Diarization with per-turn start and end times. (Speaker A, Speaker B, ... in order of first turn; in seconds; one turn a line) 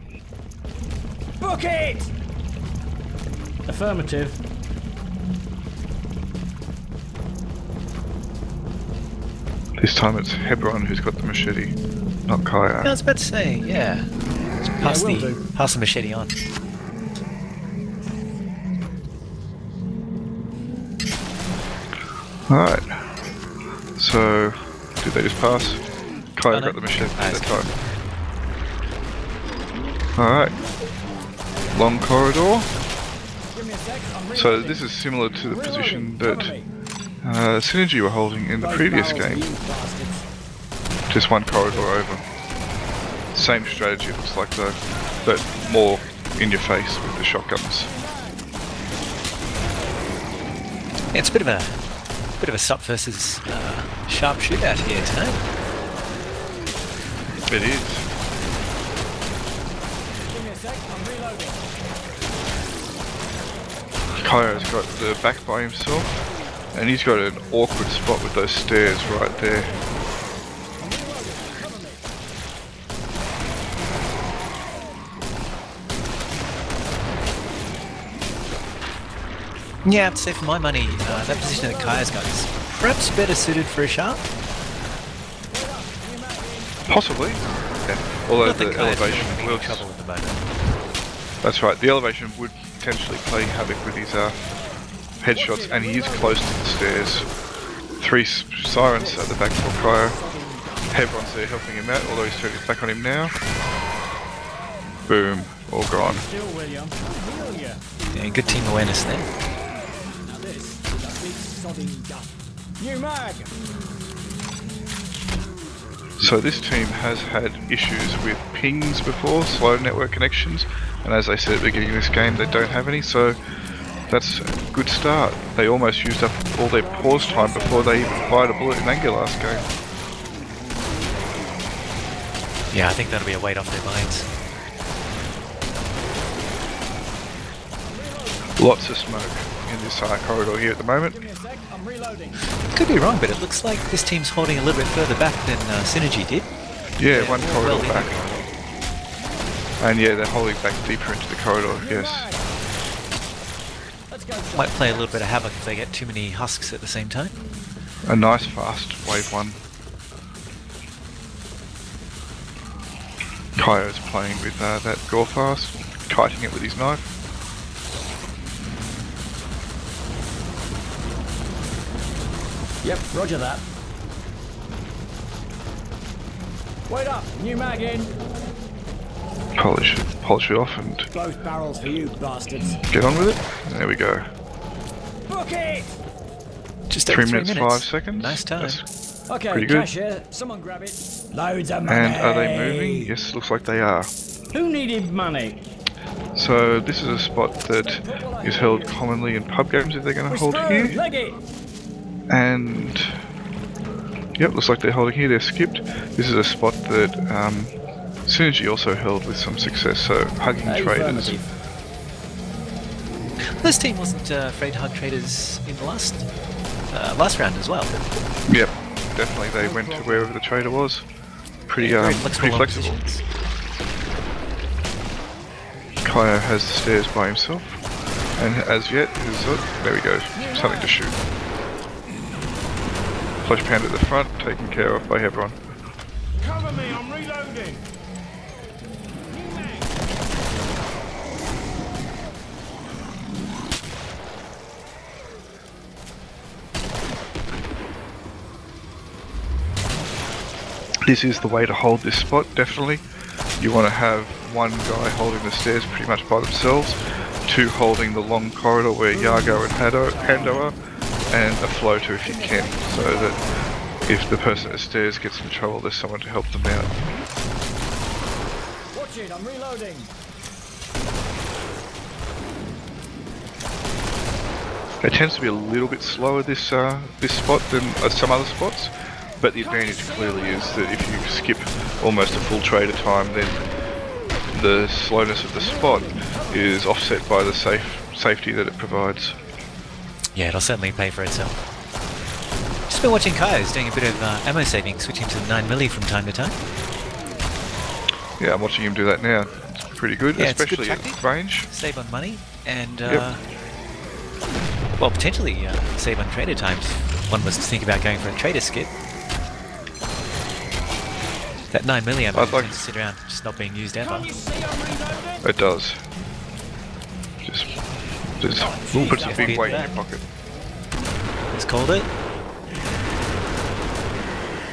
Speaker A: 1.4-2.1
Speaker A: 3.7-4.4
Speaker B: 9.8-11.8
Speaker B: 12.3-13.0
Speaker C: 12.8-14.1
Speaker C: 14.8-16.4
Speaker A: 14.8-15.4
Speaker B: 22.5-23.0
Speaker B: 24.0-25.8
Speaker B: 26.4-27.7
Speaker C: 26.5-27.8
Speaker B: 30.2-30.6
Speaker B: 31.7-32.7
Speaker A: 33.5-34.8
Speaker B: 34.3-36.5
Speaker A: 35.4-36.7
Speaker B: 37.2-39.5
Speaker A: 38.6-40.2
Speaker B: 41.1-42.2
Speaker B: 43.3-47.9
Speaker A: 47.9-48.4
Speaker C: 51.1-51.8
Speaker C: 52.4-55.4
Speaker B: 57.5-58.1
Speaker A: 60.3-61.7
Speaker B: 64.2-66.1
Speaker B: 66.7-69.7
Speaker A: 68.8-69.9
Speaker A: 70.8-72.1
Speaker C: 79.8-84.2
Speaker A: 81.1-82.2
Speaker A: 85.5-86.8
Speaker B: 86.9-89.8
Speaker C: 88.4-90.4
Speaker B: 91.4-94.4
Speaker B: 95.2-97.3
Speaker A: 95.3-96.5
Speaker B: 98.0-100.2
Speaker A: 98.9-101.0
Speaker B: 100.9-103.3
Speaker B: 105.1-106.2
Speaker A: 106.0-107.8
Speaker C: 108.1-109.3
Speaker A: 110.2-113.5
Speaker B: 116.2-123.4
Speaker B: 124.1-129.7
Speaker A: 126.7-129.7
Speaker C: 132.7-134.3
Speaker A: 137.8-138.6
Speaker B: 138.6-141.2
Speaker A: 141.1-142.4
Speaker C: 142.7-146.5
Speaker B: 147.0-148.1
Speaker C: 147.1-148.5
Speaker B: 149.8-152.3
Speaker A: 151.8-152.5
Speaker A: 154.1-154.9
Speaker C: 154.5-157.4
Speaker B: 158.1-159.6
Speaker B: 163.6-167.1
Speaker A: 172.8-173.7
Speaker A: 176.9-178.1
Speaker B: 179.6-181.1
Speaker A: 181.1-182.8
Speaker B: 182.8-184.3
Speaker A: 185.3-185.9
Speaker C: 186.9-188.8
Speaker B: 187.1-188.9
Speaker A: 189.3-193.1
Speaker B: 189.5-189.9
Speaker B: 191.8-194.1
Speaker A: 194.5-195.6
Speaker B: 196.3-201.0
Speaker A: 197.8-199.0
Speaker A: 200.3-201.4
Speaker B: 202.3-203.2
Speaker B: 204.4-207.7
Speaker B: 208.3-211.4
Speaker A: 210.6-211.5
Speaker C: 213.6-216.3
Speaker C: 216.9-218.0
Speaker B: 218.5-221.1
Speaker A: 219.6-220.3
Speaker B: 221.7-223.0
Speaker C: 221.8-223.2
Speaker B: 226.1-227.8
Speaker B: 228.4-231.2
Speaker A: 230.3-231.0
Speaker B: 233.4-235.6
Speaker A: 236.4-237.8
Speaker A: 239.3-239.9
Speaker B: 251.1-253.0
Speaker B: 253.6-260.8
Speaker A: 259.1-260.7
Speaker B: 261.3-263.4
Speaker A: 262.2-263.4
Speaker B: 264.1-266.9
Speaker A: 268.9-270.1
Speaker B: 275.0-283.6
Speaker A: 279.6-280.8
Speaker B: 284.5-289.4
Speaker A: 285.6-286.8
Speaker C: 290.4-291.6
Speaker C: 292.9-296.6
Speaker B: 298.4-301.7
Speaker C: 300.4-303.4
Speaker C: 305.0-308.9
Speaker C: 311.7-314.3
Speaker B: 312.3-312.8
Speaker A: 314.0-315.4
Speaker B: 315.4-316.0
Speaker B: 317.4-317.7
Speaker B: 318.4-320.2
Speaker A: 318.5-319.9
Speaker C: 319.1-319.9
Speaker C: 321.5-322.1